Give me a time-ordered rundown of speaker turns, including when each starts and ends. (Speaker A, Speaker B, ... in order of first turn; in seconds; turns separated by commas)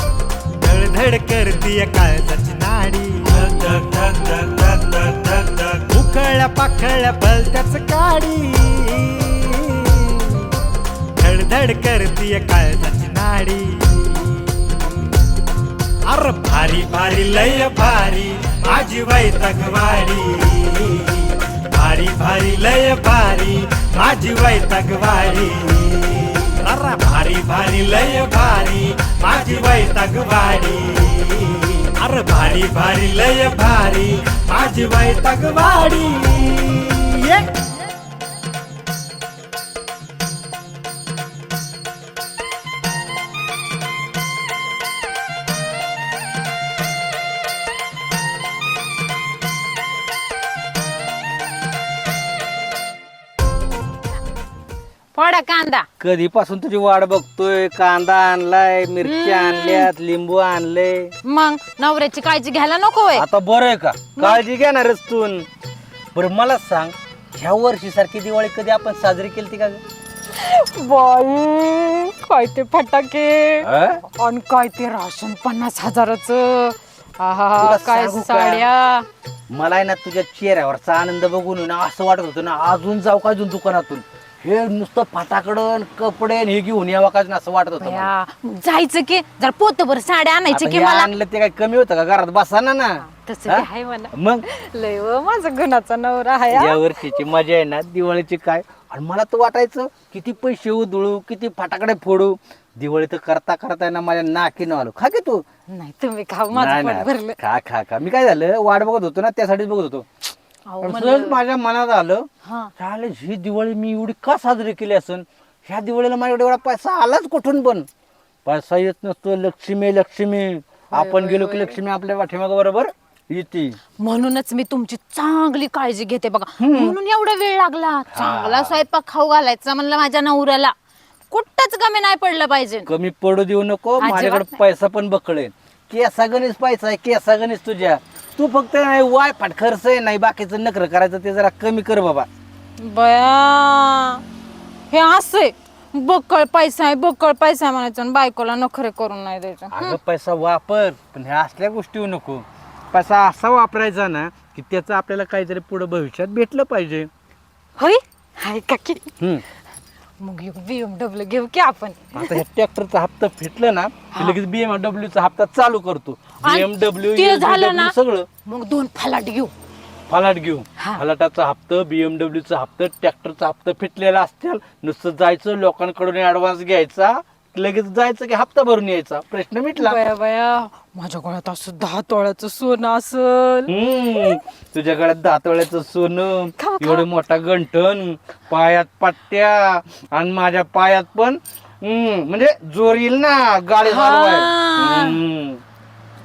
Speaker A: 0.6-10.5, Speaker A: 11.2-14.3, Speaker A: 16.1-37.5, Speaker B: 55.1-55.9, Speaker C: 56.0-61.1, Speaker B: 59.0-59.9, Speaker B: 61.3-63.2, Speaker C: 63.1-65.5, Speaker C: 66.2-69.8, Speaker B: 70.3-79.1, Speaker C: 73.6-74.0, Speaker C: 77.6-78.7, Speaker C: 79.5-88.1, Speaker B: 87.8-91.1, Speaker C: 90.5-94.4, Speaker B: 93.0-97.1, Speaker C: 96.5-105.4, Speaker B: 105.7-107.4, Speaker C: 106.5-110.1, Speaker B: 110.7-111.4, Speaker C: 110.8-112.3, Speaker B: 112.4-112.7, Speaker C: 112.8-117.9, Speaker C: 118.5-123.8, Speaker B: 120.9-121.8, Speaker B: 124.0-130.7, Speaker C: 126.6-127.0, Speaker C: 128.1-128.8, Speaker B: 131.3-132.9, Speaker C: 132.9-142.3, Speaker B: 134.0-134.5, Speaker B: 142.8-144.2, Speaker B: 144.9-150.0, Speaker C: 149.7-157.1, Speaker B: 157.8-159.1, Speaker C: 159.2-159.4, Speaker B: 160.2-162.4, Speaker C: 162.2-168.3, Speaker B: 164.1-164.4, Speaker B: 166.4-167.9, Speaker B: 168.4-169.5, Speaker C: 170.1-180.0, Speaker B: 179.8-184.4, Speaker C: 183.7-195.6, Speaker B: 186.6-187.0, Speaker B: 193.9-195.2